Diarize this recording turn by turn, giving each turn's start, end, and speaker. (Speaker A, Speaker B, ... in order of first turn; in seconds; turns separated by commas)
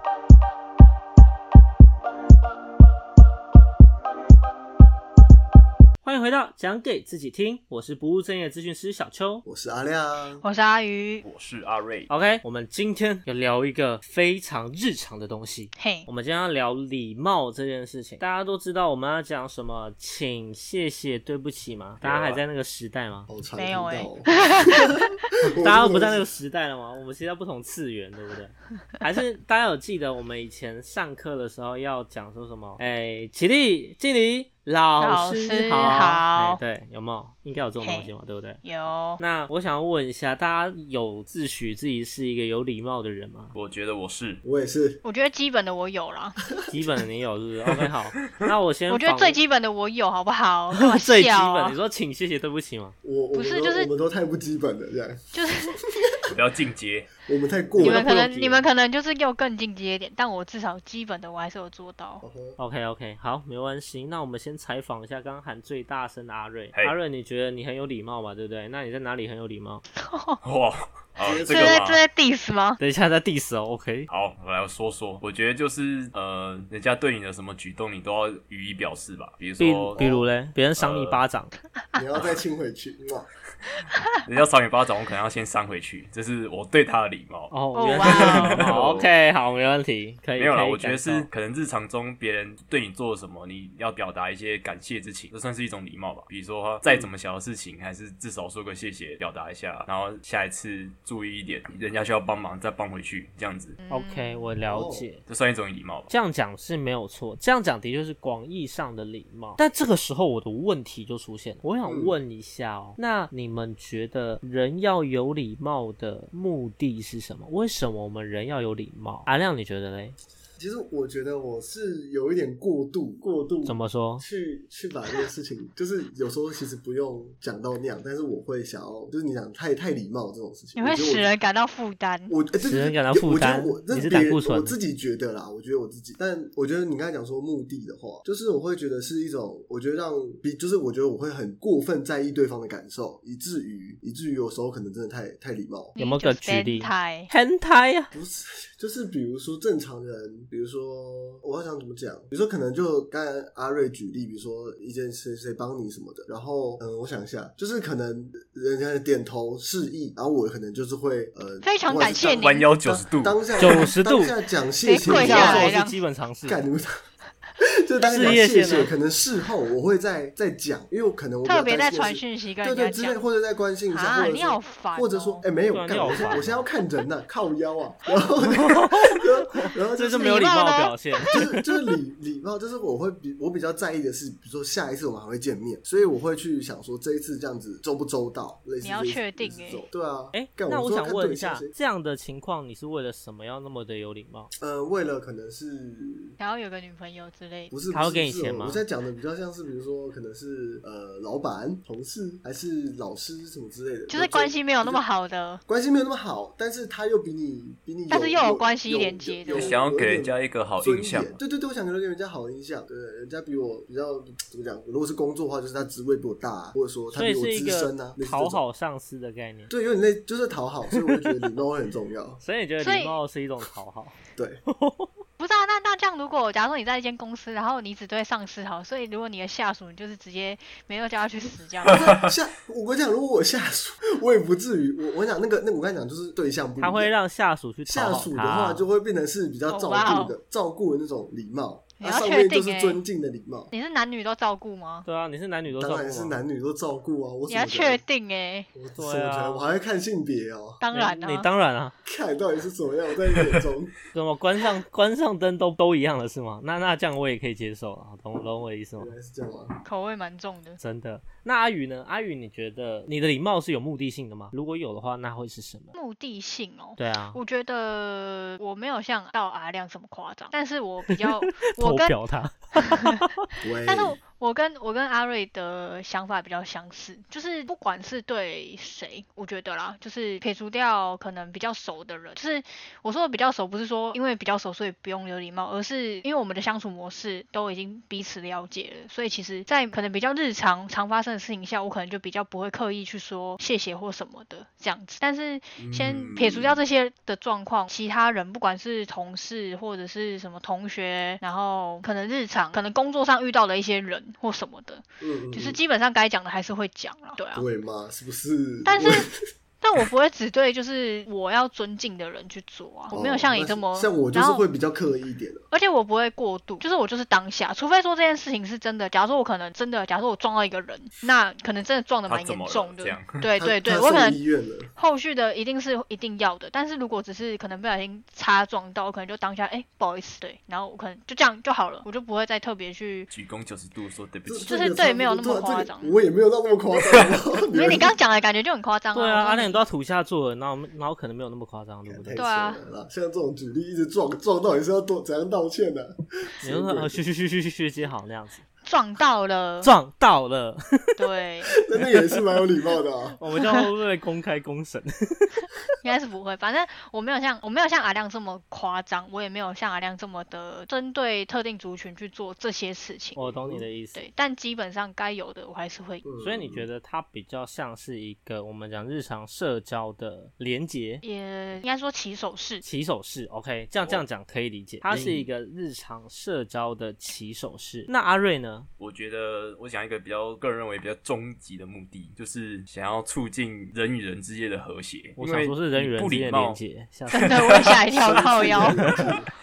Speaker A: 6.0-9.4, Speaker B: 9.4-10.4, Speaker C: 10.4-11.2, Speaker D: 11.2-12.1, Speaker A: 12.1-23.3, Speaker C: 15.8-16.1, Speaker D: 22.0-22.4, Speaker B: 23.3-24.9, Speaker C: 23.6-25.1, Speaker A: 25.4-38.6, Speaker B: 25.5-26.2, Speaker C: 35.0-36.6, Speaker C: 37.8-38.1, Speaker C: 38.6-39.2, Speaker A: 39.2-43.5, Speaker D: 43.5-44.4, Speaker B: 44.4-45.0, Speaker C: 45.0-46.4, Speaker A: 46.7-49.4, Speaker C: 48.9-51.8, Speaker A: 50.7-52.9, Speaker B: 53.0-55.3, Speaker C: 53.3-53.9, Speaker C: 55.3-55.9, Speaker D: 56.3-57.1, Speaker B: 57.2-58.6, Speaker C: 57.8-62.2, Speaker B: 62.2-62.6, Speaker A: 62.6-69.8, Speaker C: 70.0-70.4, Speaker D: 70.4-72.0, Speaker B: 71.2-71.8, Speaker C: 71.5-72.8, Speaker A: 72.8-74.1, Speaker D: 74.1-80.0, Speaker A: 79.6-81.5, Speaker B: 80.0-80.2, Speaker D: 80.8-81.2, Speaker B: 82.0-83.3, Speaker D: 84.2-87.5, Speaker A: 87.5-91.3, Speaker C: 87.7-88.6, Speaker D: 88.0-89.1, Speaker D: 90.4-103.8, Speaker C: 103.8-104.5, Speaker A: 103.9-105.2, Speaker B: 104.7-105.0, Speaker D: 105.3-106.1, Speaker A: 106.1-120.2, Speaker B: 111.8-112.1, Speaker B: 120.6-131.3, Speaker A: 123.6-124.2, Speaker C: 130.8-132.3, Speaker B: 132.3-145.9, Speaker A: 132.6-134.7, Speaker C: 145.9-147.3, Speaker A: 146.0-148.1, Speaker B: 148.1-165.7, Speaker C: 161.6-162.7, Speaker D: 162.4-163.4, Speaker A: 163.6-164.3, Speaker C: 164.8-166.0, Speaker A: 165.0-166.6, Speaker B: 166.4-166.9, Speaker B: 167.6-180.5, Speaker A: 168.1-168.9, Speaker C: 171.4-173.2, Speaker C: 173.9-175.4, Speaker A: 175.7-176.6, Speaker A: 178.5-181.4, Speaker C: 180.2-181.7, Speaker B: 181.2-191.7, Speaker C: 188.8-189.8, Speaker A: 190.3-194.5, Speaker B: 194.6-196.3, Speaker C: 196.4-197.7, Speaker B: 197.7-205.0, Speaker A: 197.9-198.8, Speaker C: 204.1-205.6, Speaker B: 205.7-218.6, Speaker C: 208.1-209.8, Speaker D: 209.5-211.4, Speaker A: 217.1-219.7, Speaker B: 219.7-222.4, Speaker A: 222.4-225.1, Speaker C: 222.8-223.2, Speaker B: 224.3-224.6, Speaker C: 225.4-232.1, Speaker B: 231.9-237.1, Speaker A: 236.8-238.8, Speaker B: 237.8-243.7, Speaker C: 239.7-240.3, Speaker C: 242.0-243.0, Speaker C: 243.7-245.1, Speaker A: 245.0-246.3, Speaker B: 245.7-248.0, Speaker C: 247.5-248.7, Speaker B: 248.7-250.8, Speaker A: 248.9-249.7, Speaker C: 250.8-251.5, Speaker A: 250.9-251.9, Speaker B: 252.0-253.9, Speaker A: 254.1-259.1, Speaker B: 259.0-259.8, Speaker C: 259.8-260.8, Speaker A: 260.8-265.9, Speaker C: 265.9-272.1, Speaker A: 267.0-267.4, Speaker A: 271.1-273.4, Speaker C: 272.8-273.2, Speaker B: 273.6-274.2, Speaker C: 273.8-307.6, Speaker B: 295.8-296.8, Speaker B: 305.2-305.8, Speaker B: 307.5-309.3, Speaker C: 308.9-309.3, Speaker C: 309.8-314.6, Speaker B: 313.1-315.6, Speaker C: 315.7-324.4, Speaker D: 322.3-323.4, Speaker B: 323.5-324.9, Speaker C: 324.9-333.3, Speaker D: 333.3-334.7, Speaker B: 334.4-338.1, Speaker C: 334.6-336.1, Speaker C: 337.7-339.8, Speaker A: 339.1-342.4, Speaker B: 342.1-347.2, Speaker C: 342.3-342.8, Speaker A: 346.6-348.6, Speaker C: 348.8-349.9, Speaker A: 349.8-351.1, Speaker C: 351.2-351.7, Speaker B: 351.8-353.4, Speaker A: 353.4-355.7, Speaker C: 356.0-363.5, Speaker A: 363.4-364.2, Speaker B: 363.5-363.8, Speaker C: 364.1-366.2, Speaker B: 366.2-366.9, Speaker A: 366.4-371.2, Speaker C: 371.2-372.8, Speaker A: 372.8-378.9, Speaker D: 375.1-375.4, Speaker B: 375.1-375.4, Speaker D: 379.0-386.8, Speaker A: 385.4-387.9, Speaker D: 387.3-388.9, Speaker C: 387.3-389.1, Speaker B: 388.2-389.5